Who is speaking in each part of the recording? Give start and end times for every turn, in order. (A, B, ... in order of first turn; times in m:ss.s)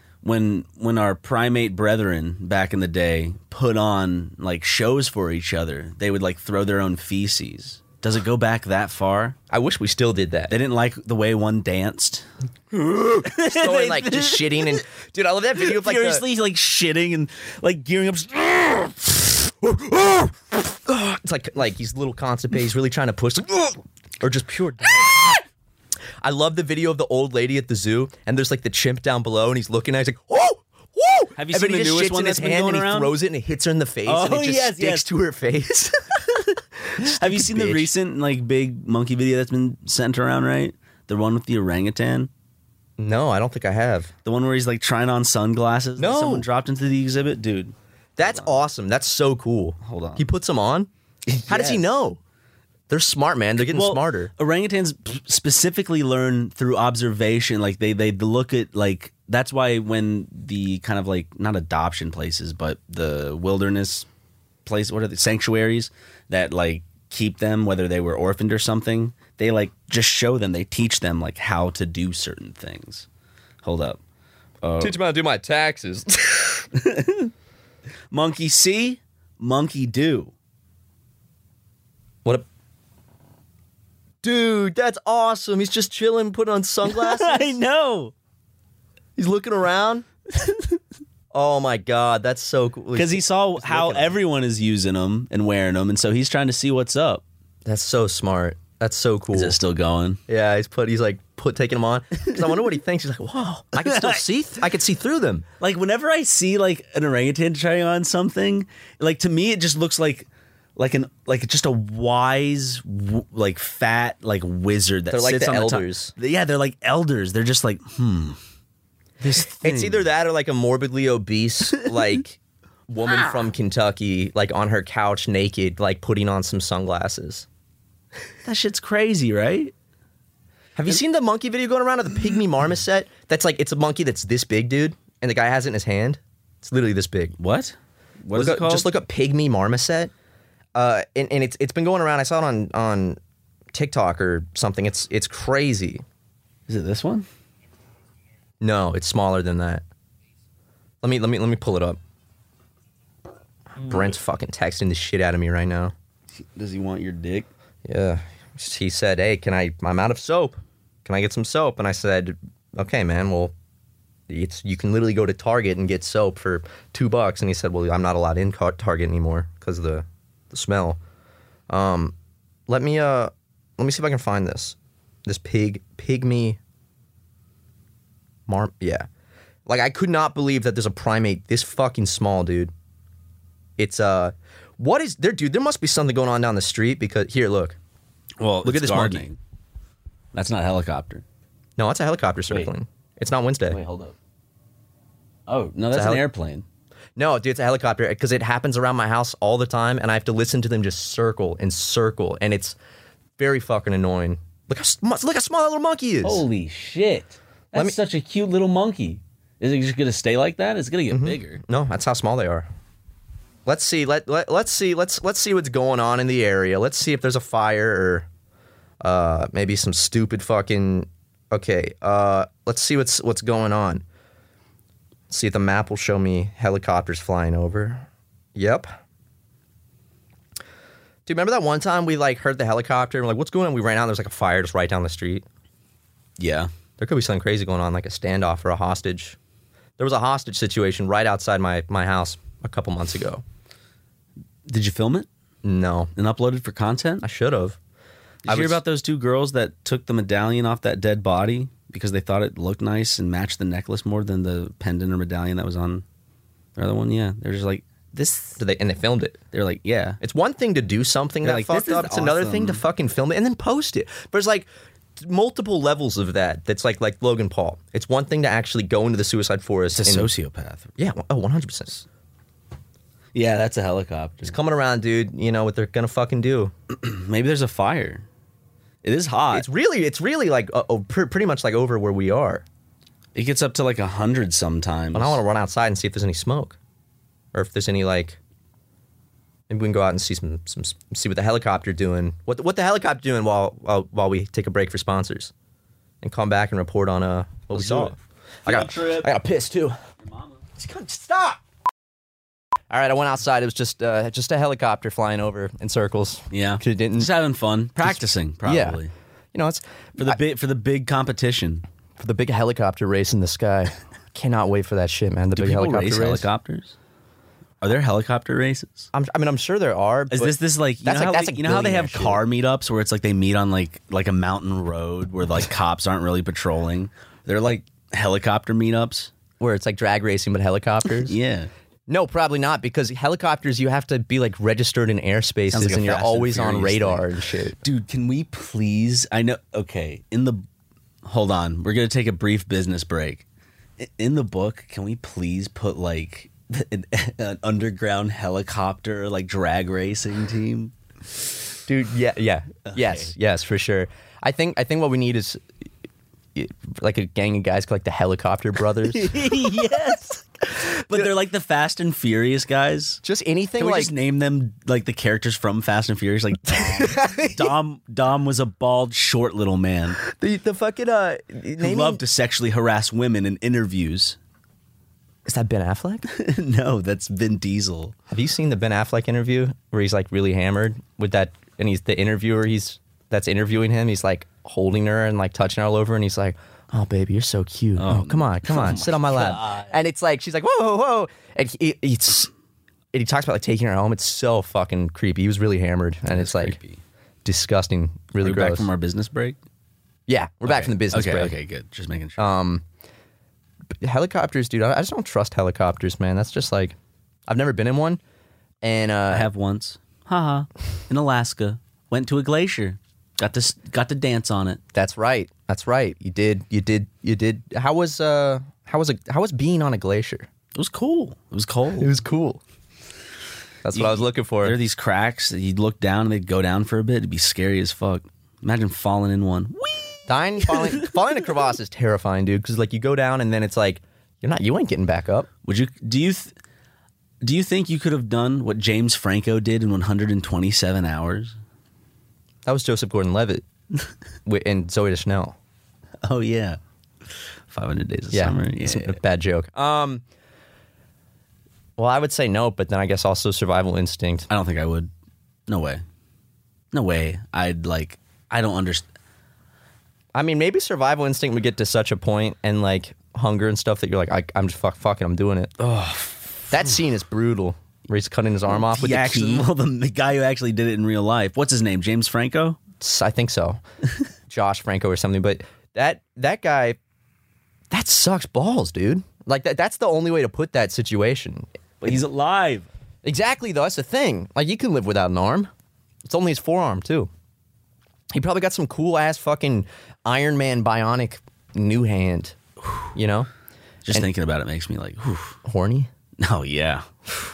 0:00.2-0:09.4 A
0:09.5-0:10.6 B
0:10.5-0:12.3 A
0:12.7-0:16.2 B
0:12.8-0:14.8 A
0:15.6-0:19.7 A
0:19.6-0:25.4 B
0:26.2-0:36.4 B
0:31.4-0:33.1 A
0:34.1-0:35.1 A
0:37.0-0:37.9 B
0:37.0-0:42.3 A
0:43.0-0:44.1 B
0:44.2-0:48.6 A
0:46.0-0:46.5 B
0:48.2-0:50.9 B
0:49.8-0:50.2 A
0:51.3-0:51.8 A
0:51.5-0:52.2 B
0:52.9-0:54.3 B
0:53.7-1:04.1 A
1:04.7-1:13.1 A
1:13.6-1:14.0 A
1:14.6-1:15.0 A
1:14.8-1:16.7 B
1:16.8-1:17.3 A
1:18.1-1:20.3 A
1:24.2-1:27.6 B
1:26.9-1:28.1 A
1:29.2-1:30.1 B
1:30.3-1:30.8 A
1:31.3-1:34.2 B
1:33.0-1:37.2 A
1:37.6-1:39.6 B
1:39.3-1:40.2 A
1:40.3-1:45.4 B
1:43.8-1:44.2 A
1:45.6-1:58.4 A
1:55.1-1:56.1 B
1:59.2-2:00.1 A
1:59.6-2:07.4 B
2:08.4-2:09.7 A
2:10.8-2:17.4 B
2:17.4-2:18.9 A
2:18.3-2:20.1 B
2:20.7-2:23.2 B
2:23.7-2:26.0 B
2:26.7-2:27.3 A
2:28.6-2:29.8 B
2:31.0-2:32.0 B
2:33.8-2:35.9 B
2:36.4-2:37.5 A
2:37.8-2:43.5 B
2:44.3-2:51.0 B
2:51.7-2:52.1 B
2:52.7-2:56.6 B
2:58.5-2:59.1 B
2:59.7-3:02.7 B
3:03.8-3:07.8 B
3:08.4-3:09.4 A
3:08.6-3:09.3 B
3:10.3-3:11.2 A
3:11.8-3:13.8 B
3:13.7-3:14.1 A
3:15.5-3:16.6 A
3:15.9-3:16.2 B
3:17.2-3:22.8 B
3:23.4-3:26.4 B
3:26.2-3:31.6 A
3:31.1-3:32.7 B
3:33.7-3:38.3 B
3:39.0-3:44.0 B
3:45.3-3:48.9 B
3:51.3-3:55.4 B
3:56.4-3:56.7 A
3:57.0-3:59.4 B
4:00.0-4:03.4 B
4:04.7-4:05.3 A
4:05.6-4:06.1 B
4:06.2-4:07.2 A
4:07.2-4:07.8 B
4:08.4-4:08.8 B
4:08.4-4:16.0 A
4:16.8-4:18.6 A
4:18.6-4:19.4 B
4:19.5-4:20.2 A
4:20.2-4:30.3 B
4:21.4-4:22.8 A
4:29.9-4:30.9 A
4:31.0-4:32.1 B
4:33.3-4:34.6 A
4:34.4-4:36.7 B
4:36.9-4:38.2 A
4:39.0-4:39.7 A
4:39.5-4:42.6 B
4:43.4-4:45.4 A
4:45.1-4:46.8 B
4:47.5-4:48.4 B
4:49.7-4:55.5 B
4:56.2-5:00.0 B
4:57.7-4:59.3 A
5:00.2-5:00.6 A
5:00.8-5:01.6 B
5:02.9-5:07.3 B
5:06.5-5:09.1 A
5:08.0-5:09.0 B
5:09.5-5:10.4 B
5:10.2-5:11.8 A
5:12.2-5:16.5 B
5:15.6-5:17.0 A
5:17.8-5:19.1 A
5:19.1-5:22.4 B
5:20.3-5:29.3 A
5:29.6-5:31.4 B
5:31.2-5:31.7 A
5:32.1-5:37.8 B
5:35.7-5:37.3 A
5:37.8-5:40.6 A
5:41.2-5:43.4 A
5:44.0-5:50.9 A
5:51.9-5:55.6 B
5:52.9-5:53.3 A
5:56.6-5:59.9 B
5:59.1-6:03.2 A
6:03.2-6:04.1 B
6:03.8-6:10.2 A
6:06.7-6:07.7 B
6:10.2-6:12.2 B
6:11.8-6:14.4 A
6:15.4-6:16.3 B
6:16.3-6:18.1 A
6:18.3-6:32.5 B
6:28.0-6:30.0 A
6:33.1-6:36.8 B
6:36.3-6:37.0 A
6:37.4-6:38.9 B
6:38.4-6:39.6 A
6:40.3-6:41.6 B
6:40.6-6:42.5 A
6:42.4-6:42.8 B
6:44.0-6:47.0 B
6:47.5-6:48.2 B
6:48.8-6:49.5 B
6:49.3-6:54.8 A
6:54.9-7:00.5 B
7:00.7-7:02.1 A
7:02.0-7:02.6 B
7:03.8-7:04.8 B
7:03.9-7:11.1 A
7:10.3-7:15.5 B
7:15.6-7:16.6 A
7:17.4-7:21.5 A
7:22.6-7:23.6 B
7:24.4-7:25.6 B
7:26.2-7:26.8 A
7:27.7-7:29.2 A
7:28.3-7:30.2 B
7:32.0-7:34.5 B
7:34.5-7:35.1 A
7:35.7-7:36.0 A
7:36.9-7:39.0 A
7:40.4-7:45.7 B
7:45.8-7:47.0 A
7:46.7-7:49.7 B
7:48.7-7:52.8 A
7:53.0-7:53.8 B
7:54.5-7:57.0 B
7:57.9-8:02.2 B
8:02.0-8:02.9 A
8:03.2-8:05.7 B
8:06.2-8:07.3 B
8:08.3-8:12.6 B
8:13.1-8:13.5 B
8:14.0-8:15.6 A
8:15.6-8:16.1 B
8:16.4-8:17.1 A